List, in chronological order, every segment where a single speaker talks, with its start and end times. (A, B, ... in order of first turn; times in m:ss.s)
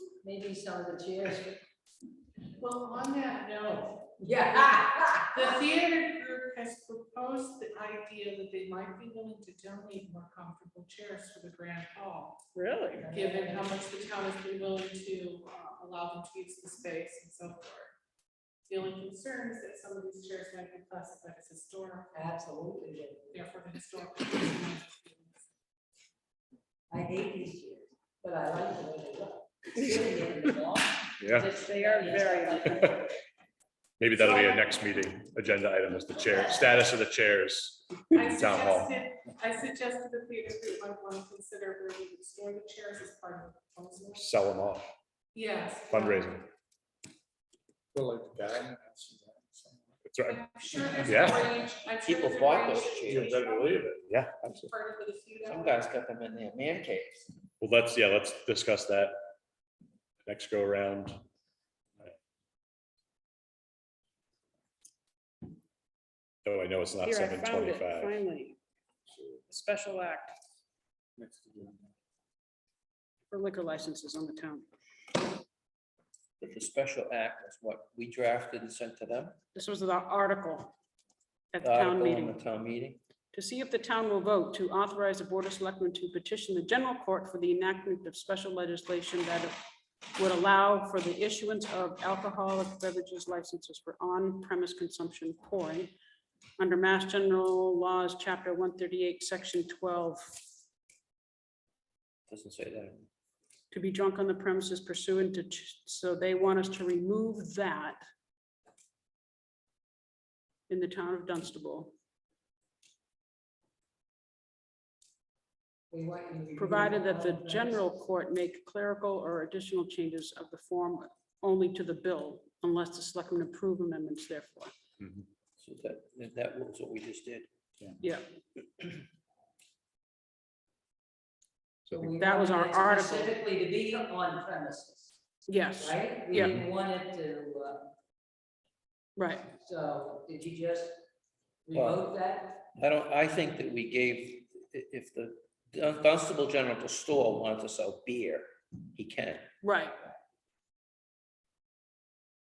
0:00.2-0:01.6 A
0:02.6-0:04.1 B
0:04.2-0:05.5 A
0:05.3-0:12.4 B
0:12.5-0:13.0 C
0:13.0-0:13.7 A
0:13.1-0:17.9 B
0:18.7-0:22.1 B
0:22.1-0:23.5 A
0:23.3-0:25.4 B
0:26.9-0:33.0 A
0:29.8-0:30.3 C
0:31.2-0:31.6 D
0:31.4-0:33.0 C
0:34.0-0:39.0 D
0:34.2-0:34.6 B
0:36.2-0:36.7 A
0:38.1-0:44.3 B
0:44.2-0:44.9 D
0:45.3-0:46.4 B
0:45.9-0:46.4 D
0:47.9-0:50.0 E
0:50.0-0:51.5 D
0:50.2-0:55.9 B
0:52.0-0:53.5 F
0:53.1-0:54.7 D
0:55.5-0:57.3 F
0:57.6-0:59.2 D
1:00.2-1:01.2 D
1:06.4-1:08.1 D
1:07.0-1:08.6 C
1:09.1-1:09.4 E
1:09.5-1:10.3 C
1:11.2-1:11.9 E
1:13.3-1:14.7 C
1:16.4-1:19.4 F
1:19.5-1:20.7 C
1:21.5-1:22.4 C
1:21.6-1:23.0 F
1:23.3-1:29.6 C
1:30.2-1:35.9 C
1:36.6-1:40.4 C
1:42.3-1:43.1 F
1:43.7-1:48.0 C
1:50.7-1:51.9 C
1:55.9-1:57.8 A
1:56.6-2:04.7 C
2:05.6-2:07.5 F
2:11.9-2:15.1 A
2:12.2-2:13.3 C
2:15.5-2:16.0 C
2:15.8-2:17.9 A
2:16.3-2:16.6 D
2:19.2-2:19.5 C
2:19.6-2:21.0 A
2:21.7-2:22.6 A
2:21.7-2:22.1 F
2:22.7-2:29.5 F
2:29.6-2:30.0 C